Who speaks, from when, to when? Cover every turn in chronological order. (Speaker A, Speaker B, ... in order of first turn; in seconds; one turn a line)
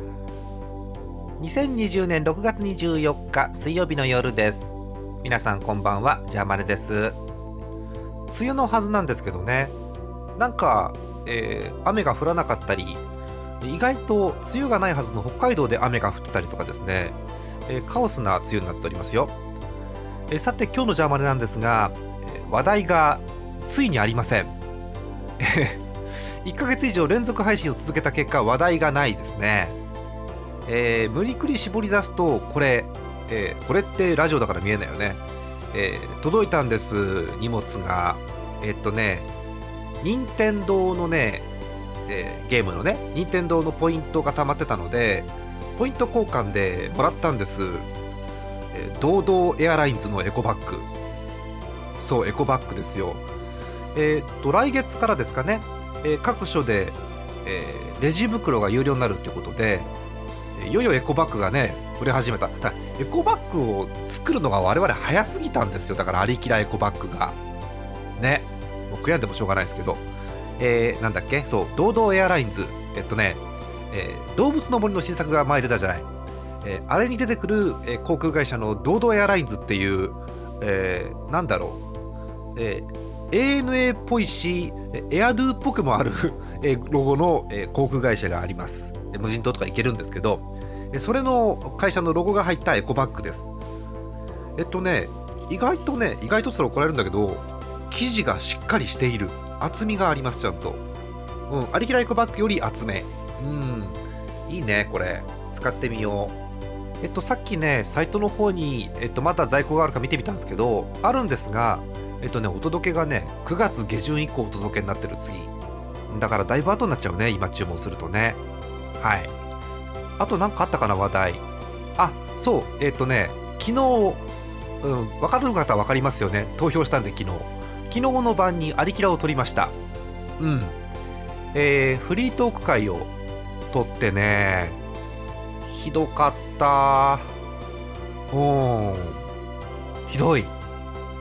Speaker A: 1.4-7.2
Speaker A: 8.3-9.7
Speaker A: 10.4-13.0
Speaker A: 13.6-19.3
Speaker A: 20.3-24.5
Speaker A: 25.4-25.8
Speaker A: 26.4-29.8
Speaker A: 30.6-39.3
Speaker A: 40.0-41.5
Speaker A: 42.1-47.9
Speaker A: 48.7-50.9
Speaker A: 52.0-53.2
Speaker A: 53.9-59.9
Speaker A: 60.5-67.3
Speaker A: 68.2-70.0
Speaker A: 70.6-76.1
Speaker A: 76.6-81.8
Speaker A: 82.5-93.5
Speaker A: 94.6-100.8
Speaker A: 101.5-106.3
Speaker A: 107.0-115.5
Speaker A: 116.1-118.4
Speaker A: 119.0-119.3
Speaker A: 120.2-121.4
Speaker A: 122.0-124.2
Speaker A: 124.8-129.7
Speaker A: 130.4-130.8
Speaker A: 131.5-133.1
Speaker A: 133.7-134.8
Speaker A: 135.6-137.3
Speaker A: 138.3-139.2
Speaker A: 140.1-140.5